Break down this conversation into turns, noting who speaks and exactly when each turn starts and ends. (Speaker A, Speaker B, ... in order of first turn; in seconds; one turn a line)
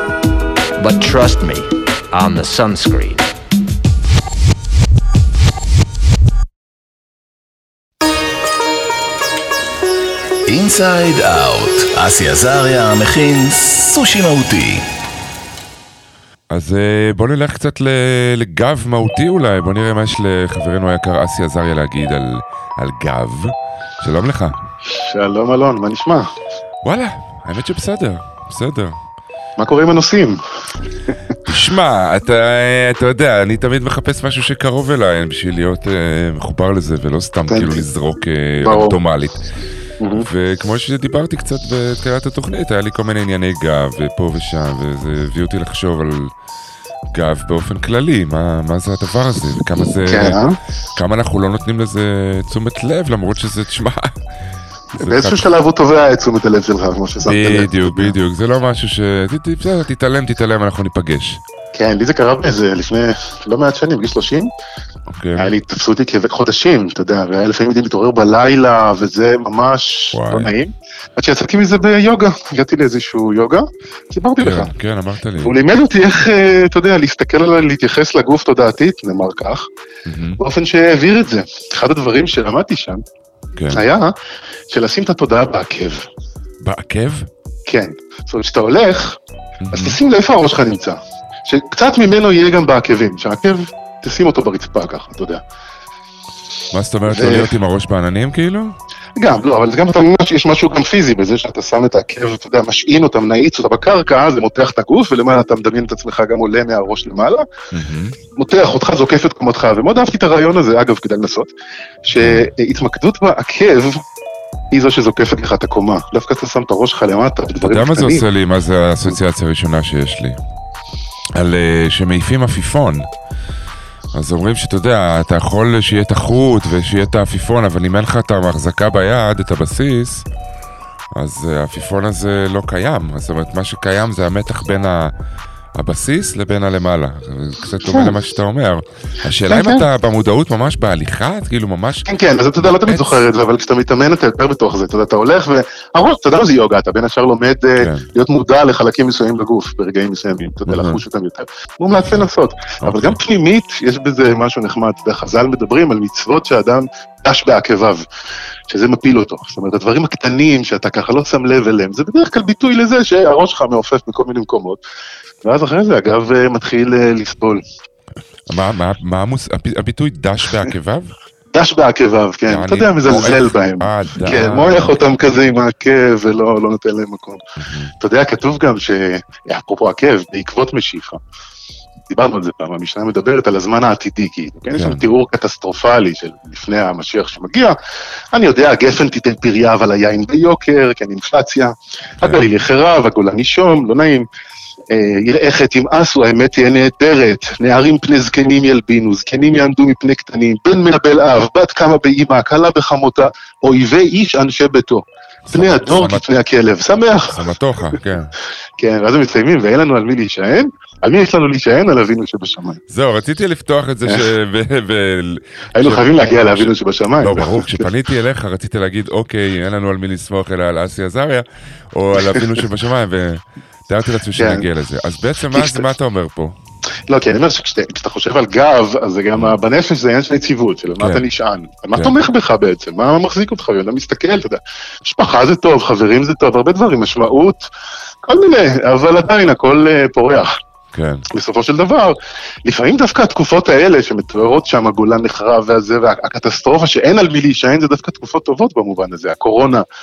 Speaker A: 0.8-3.3
Speaker B: 10.5-14.8
Speaker C: 16.5-24.5
Speaker D: 24.9-26.3
Speaker C: 26.8-28.9
Speaker D: 29.6-30.4
Speaker C: 31.4-39.4
Speaker D: 37.5-37.8
Speaker D: 38.6-38.9
Speaker D: 40.0-40.3
Speaker C: 40.1-46.3
Speaker C: 47.1-50.4
Speaker D: 50.0-50.6
Speaker C: 50.9-54.2
Speaker C: 55.0-55.5
Speaker D: 55.0-58.1
Speaker C: 57.2-61.4
Speaker D: 61.7-64.5
Speaker C: 65.1-65.5
Speaker D: 65.4-74.7
Speaker C: 70.1-70.5
Speaker C: 74.4-75.5
Speaker D: 75.4-79.6
Speaker C: 80.1-80.4
Speaker D: 80.4-83.0
Speaker C: 83.5-83.8
Speaker D: 83.7-84.1
Speaker D: 84.7-86.1
Speaker C: 86.6-87.3
Speaker D: 87.7-89.2
Speaker C: 89.7-90.0
Speaker D: 89.7-95.4
Speaker C: 96.7-98.7
Speaker D: 97.1-97.5
Speaker D: 99.2-107.5
Speaker C: 107.7-108.2
Speaker D: 108.3-111.5
Speaker D: 112.0-114.0
Speaker C: 112.2-112.5
Speaker D: 114.7-118.2
Speaker C: 117.6-120.4
Speaker C: 121.3-123.1
Speaker C: 124.1-130.2
Speaker C: 131.1-135.1
Speaker C: 135.7-143.2
Speaker D: 137.8-138.1
Speaker D: 139.4-139.8
Speaker D: 142.1-158.0
Speaker C: 147.8-148.1
Speaker C: 150.7-151.0
Speaker C: 152.8-153.2
Speaker D: 158.7-164.8
Speaker D: 165.4-167.6
Speaker C: 168.5-171.1
Speaker D: 171.5-177.4
Speaker C: 172.5-175.0
Speaker C: 177.6-177.9
Speaker D: 178.0-181.2
Speaker D: 182.1-187.8
Speaker C: 184.7-185.1
Speaker D: 188.3-194.2
Speaker D: 194.9-207.4
Speaker C: 205.5-206.2
Speaker C: 207.3-208.3
Speaker D: 208.8-212.8
Speaker C: 212.9-216.7
Speaker D: 215.8-217.9
Speaker C: 217.2-226.6
Speaker D: 222.2-222.5
Speaker D: 224.3-224.6
Speaker D: 225.5-225.9
Speaker D: 227.1-237.7
Speaker D: 238.2-240.5
Speaker C: 240.9-241.2
Speaker D: 241.3-249.8